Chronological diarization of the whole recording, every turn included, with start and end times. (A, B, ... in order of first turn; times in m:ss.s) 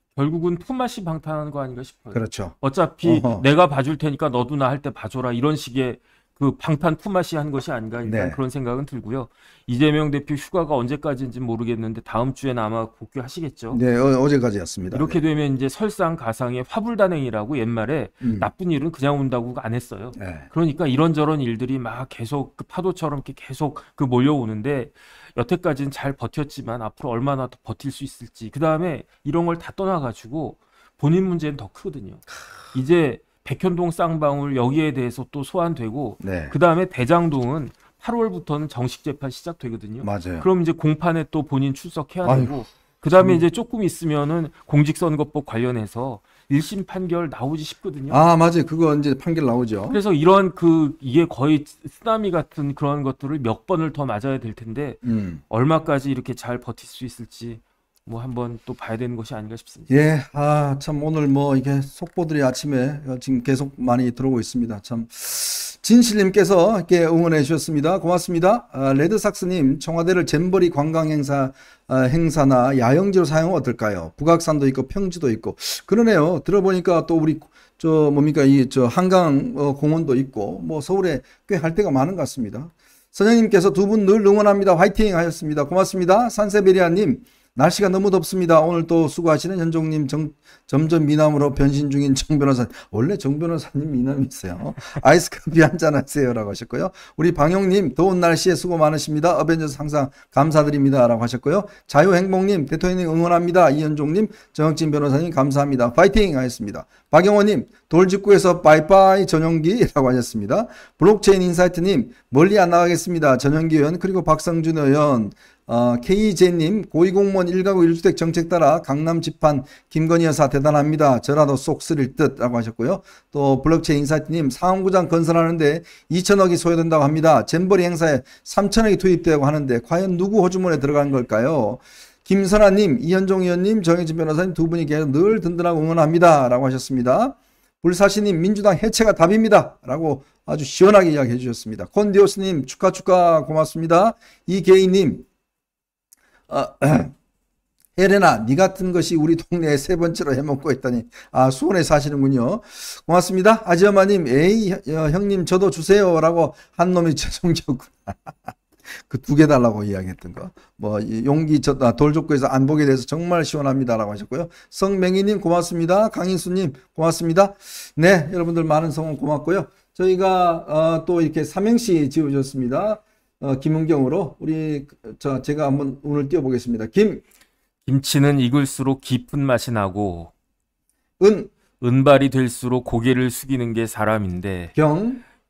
0:00.2-0:13.8 A
0:02.1-0:03.4 B
0:08.0-0:08.4 B
0:13.7-0:15.2 B
0:14.9-0:48.2 A
0:18.2-0:18.5 B
0:20.2-0:20.5 B
0:36.2-0:36.6 B
0:40.0-0:40.5 B
0:42.2-0:42.6 B
0:43.1-0:43.4 B
0:48.1-0:50.0 B
0:49.9-0:59.9 A
0:55.0-0:55.4 B
0:59.9-2:25.3 B
2:26.5-2:27.1 B
2:28.0-2:38.4 B
2:38.9-2:57.2 B
2:57.9-3:00.3 A
3:01.2-3:01.5 B
3:01.8-3:04.8 A
3:04.8-3:05.2 B